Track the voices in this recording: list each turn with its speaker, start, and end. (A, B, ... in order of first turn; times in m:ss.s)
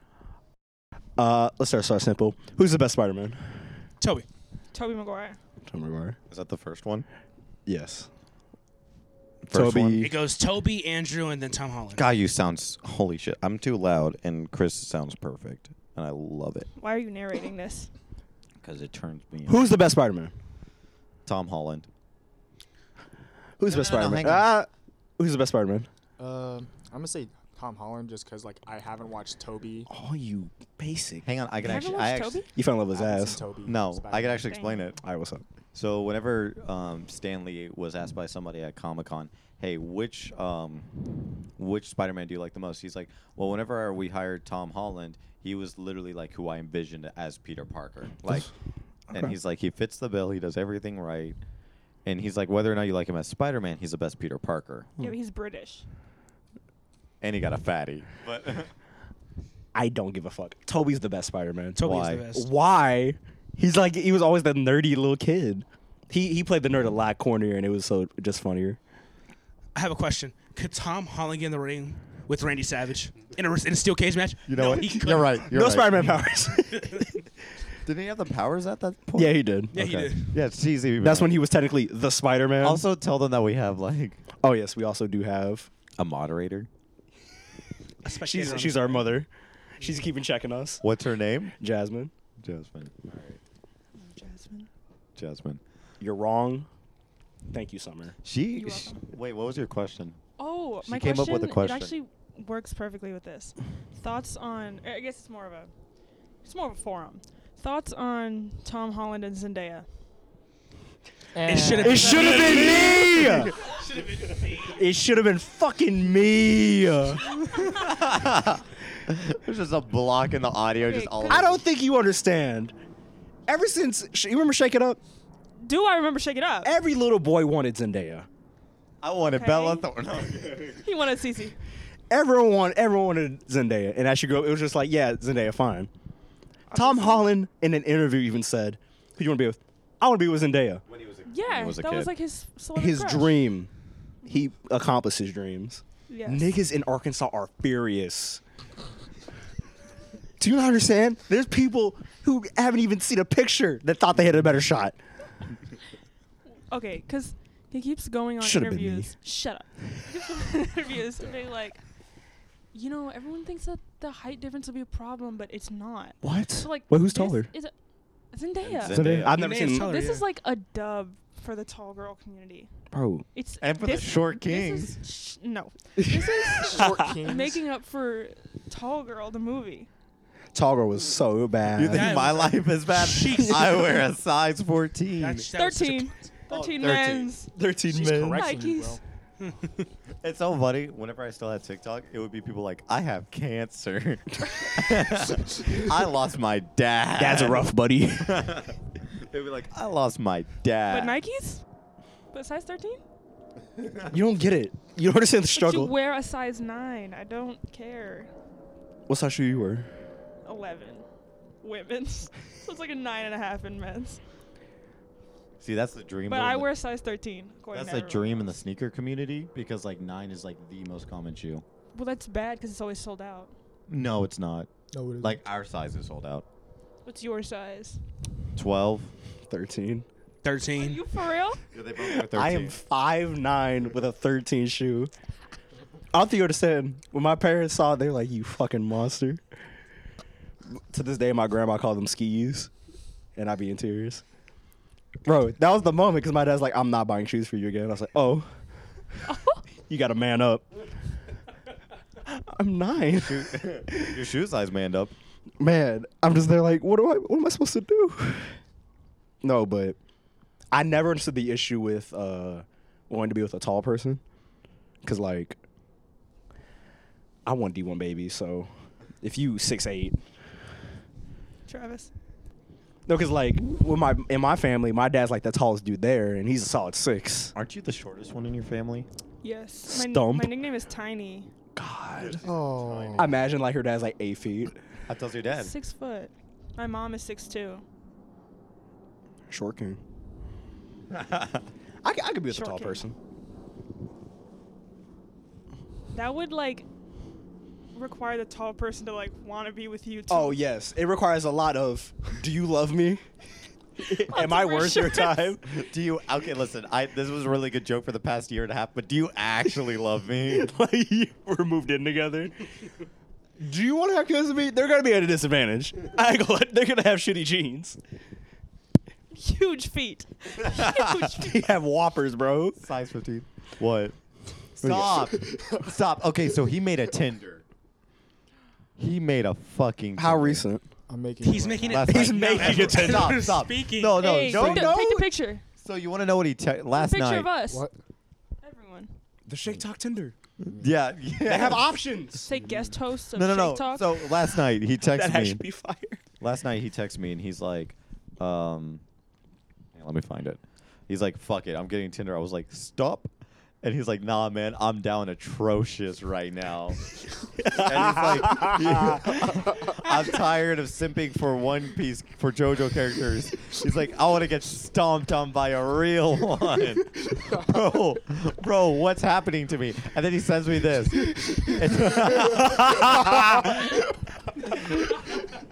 0:01.2-0:03.4 A
0:04.0-0:04.3 B
0:04.7-0:05.4 C
0:05.7-0:06.2 A
0:06.3-0:07.1 D
0:07.7-0:08.1 A
0:09.5-0:10.1 D
0:09.5-0:10.1 A
0:10.0-0:12.0 B
0:12.0-0:16.7 D
0:16.8-0:17.9 C
0:18.6-0:19.8 D
0:19.5-0:20.3 A
0:21.3-0:21.9 D
0:23.6-0:25.9 A
0:23.6-0:24.5 D
0:26.2-0:29.9 E
0:29.9-0:31.3 A
0:31.2-0:32.4 D
0:31.6-0:32.5 C
0:32.6-0:33.4 A
0:32.9-0:34.6 E
0:33.7-0:35.0 D
0:34.5-0:34.8 C
0:35.0-0:35.4 A
0:35.8-0:40.9 D
0:41.6-0:48.5 D
0:49.1-0:51.4 D
0:52.0-0:54.9 D
0:55.0-0:55.8 C
0:57.2-0:58.7 D
0:59.7-1:01.8 A
1:01.8-1:02.5 B
1:01.8-1:02.3 D
1:02.3-1:08.8 A
1:09.8-1:15.5 B
1:14.5-1:16.2 D
1:15.5-1:17.2 A
1:16.7-1:17.0 B
1:17.8-1:21.4 D
1:19.2-1:19.7 A
1:19.7-1:20.4 B
1:21.0-1:22.8 A
1:22.6-1:24.2 D
1:24.4-1:25.7 A
1:26.0-1:26.7 D
1:28.0-1:29.1 B
1:28.1-1:30.8 A
1:30.8-1:31.6 D
1:31.6-1:32.1 A
1:32.4-1:33.4 D
1:34.0-1:34.7 C
1:35.2-1:35.6 D
1:36.0-1:36.7 A
1:37.5-1:38.2 A
1:38.2-1:40.2 D
1:38.6-1:39.0 C
1:40.4-1:45.7 C
1:40.8-1:41.9 D
1:46.4-1:49.9 C
1:51.4-1:52.7 E
1:51.5-1:53.0 B
1:51.8-1:53.5 A
1:52.5-1:53.5 D
1:54.6-1:57.4 A
1:57.5-2:01.6 D
2:00.8-2:01.5 C
2:01.3-2:02.7 A
2:03.5-2:05.0 A
2:05.6-2:06.7 C
2:06.6-2:08.3 A
2:09.0-2:10.8 D
2:09.2-2:09.9 C
2:10.8-2:11.6 C
2:12.1-2:15.9 A
2:16.7-2:17.3 C
2:16.7-2:20.8 A
2:20.9-2:22.1 D
2:21.3-2:23.4 C
2:22.8-2:23.7 A
2:24.2-2:28.4 A
2:26.1-2:26.5 C
2:30.4-2:35.0 A
2:36.7-2:41.8 C
2:38.4-2:39.1 A
2:42.7-2:47.7 C
2:46.2-2:47.5 A
2:48.3-2:49.0 C
2:48.6-2:49.4 D
2:48.9-2:49.9 A
2:49.3-2:50.3 B
2:49.5-2:52.7 C
2:52.9-2:53.3 A
2:53.3-2:59.9 C
2:53.6-2:55.0 D
2:56.6-2:57.6 E
2:56.8-2:57.1 A
3:00.5-3:02.2 A
3:01.8-3:05.5 D
3:01.9-3:03.9 B
3:03.0-3:03.8 A
3:05.2-3:06.3 B
3:05.5-3:07.5 C
3:06.5-3:07.3 D
3:07.6-3:08.5 A
3:07.9-3:09.0 E
3:08.4-3:09.0 C
3:10.2-3:17.7 D
3:17.2-3:18.5 A
3:18.2-3:21.2 D
3:20.9-3:21.6 C
3:22.3-3:23.0 C
3:23.8-3:24.1 D
3:24.1-3:25.9 A
3:25.5-3:28.3 C
3:29.1-3:29.9 A
3:30.5-3:31.0 C
3:31.6-3:34.2 C
3:35.6-3:36.7 D
3:36.3-3:38.6 C
3:37.7-3:41.6 D
3:41.9-3:43.5 C
3:43.9-3:44.7 D
3:44.9-3:45.4 E
3:45.2-3:46.4 D
3:47.0-3:48.0 C
3:48.6-3:49.1 D
3:49.5-3:50.1 A
3:50.4-3:51.0 B
3:50.8-3:51.6 C
3:51.7-3:52.8 D
3:52.0-3:55.1 A
3:56.1-3:59.4 A
4:00.9-4:02.7 A
4:03.4-4:04.2 A
4:05.3-4:08.5 A
4:09.3-4:09.6 C
4:09.9-4:10.7 A
4:12.2-4:14.2 A
4:13.2-4:15.1 D
4:15.6-4:18.6 A
4:19.4-4:20.0 A
4:20.7-4:24.2 A
4:25.0-4:25.6 A
4:27.5-4:28.7 A
4:29.2-4:30.2 A
4:31.7-4:32.1 C
4:33.1-4:37.5 A
4:37.5-4:39.1 D
4:39.4-4:41.5 C
4:39.9-4:40.6 A
4:41.8-4:42.4 A
4:42.2-4:43.6 D
4:42.4-4:43.3 E
4:43.2-4:44.8 A
4:45.1-4:45.7 D
4:45.6-4:47.8 C
4:49.5-4:50.0 A
4:51.1-4:51.6 D
4:52.0-4:53.2 A
4:52.5-4:53.0 C
4:56.1-4:56.9 C
4:57.9-5:00.6 C
5:00.3-5:03.2 A
5:04.0-5:05.6 A
5:04.2-5:05.6 C
5:05.7-5:10.7 D
5:10.5-5:12.6 A
5:13.6-5:18.0 A
5:19.3-5:21.7 C
5:21.3-5:22.8 A
5:22.8-5:24.2 D
5:24.8-5:27.6 D
5:25.0-5:25.9 E
5:29.0-5:30.6 D
5:30.2-5:30.8 A
5:31.1-5:32.2 E
5:31.4-5:34.2 B
5:31.8-5:35.0 D
5:32.1-5:33.5 A
5:34.1-5:35.6 C
5:34.4-5:35.3 A
5:35.8-5:37.5 D
5:36.9-5:37.9 C
5:37.7-5:37.9 E
5:38.6-5:39.1 C
5:39.5-5:40.3 A
5:40.6-5:41.9 D
5:41.4-5:42.5 A
5:42.4-5:44.3 C
5:42.6-5:42.9 E
5:43.3-5:45.6 D
5:45.1-5:46.2 A
5:46.4-5:49.0 D
5:50.0-5:53.3 D
5:53.8-5:57.0 D
5:57.6-5:59.3 A
5:57.6-6:14.1 D
6:07.4-6:07.8 E
6:14.7-6:15.2 D